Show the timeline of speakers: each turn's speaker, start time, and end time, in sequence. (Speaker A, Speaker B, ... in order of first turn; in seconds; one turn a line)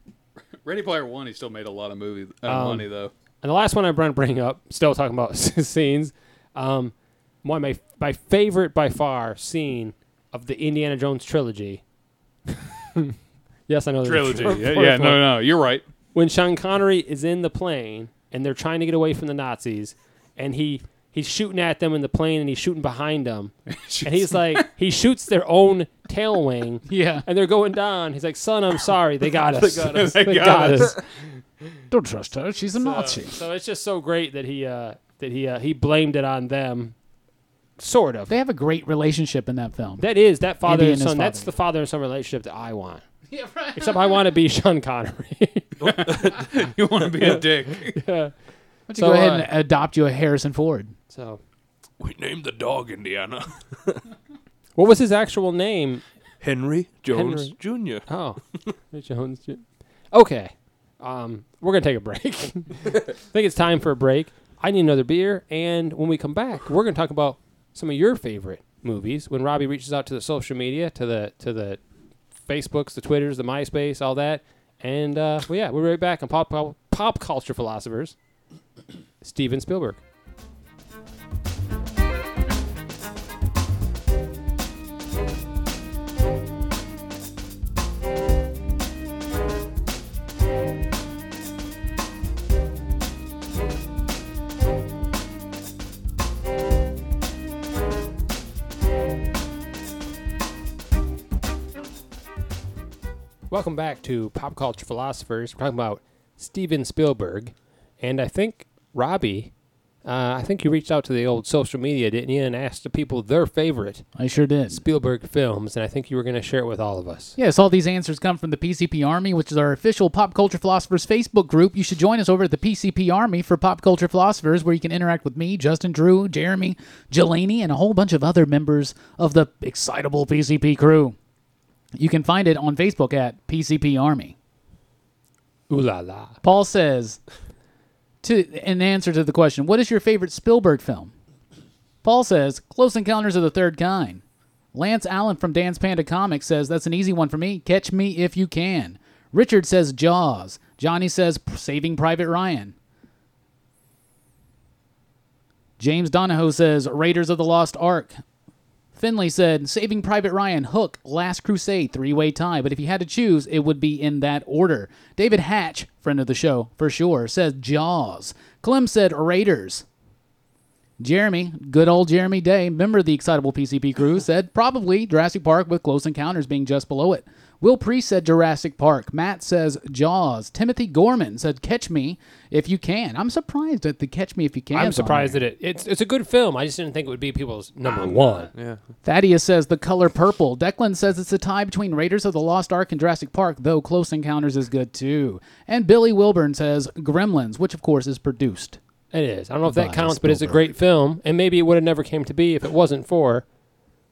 Speaker A: 0.6-3.1
Speaker B: 2.4-2.9
Speaker B: 3.4-11.8
Speaker B: 13.7-15.3
Speaker A: 14.0-15.8
Speaker B: 16.1-31.0
Speaker A: 23.7-24.7
Speaker C: 26.9-27.2
Speaker A: 29.5-31.0
Speaker C: 31.9-33.3
Speaker B: 32.8-36.9
Speaker B: 37.8-38.3
Speaker C: 38.3-40.1
Speaker B: 40.0-43.0
Speaker C: 40.6-41.5
Speaker C: 43.3-44.2
Speaker B: 43.7-45.8
Speaker D: 45.8-46.5
Speaker A: 45.8-48.0
Speaker B: 47.9-48.3
Speaker C: 48.9-50.9
Speaker B: 48.9-49.5
Speaker B: 51.1-51.4
Speaker D: 52.0-54.0
Speaker B: 54.8-56.0
Speaker D: 56.4-58.1
Speaker B: 57.1-71.8
Speaker B: 72.4-78.2
Speaker B: 79.2-80.0
Speaker B: 103.5-109.5
Speaker B: 110.0-114.1
Speaker C: 114.2-114.8
Speaker B: 114.7-117.3
Speaker C: 117.4-131.2
Speaker C: 131.9-134.3
Speaker B: 135.7-136.4
Speaker C: 136.4-137.2
Speaker C: 138.2-141.1
Speaker C: 142.0-144.2
Speaker C: 144.7-152.7
Speaker C: 155.8-158.2
Speaker C: 158.9-169.8
Speaker C: 171.0-185.4
Speaker B: 184.7-188.5
Speaker C: 187.9-188.5
Speaker D: 188.5-188.8
Speaker C: 189.0-198.8
Speaker B: 199.1-203.5
Speaker C: 199.7-200.6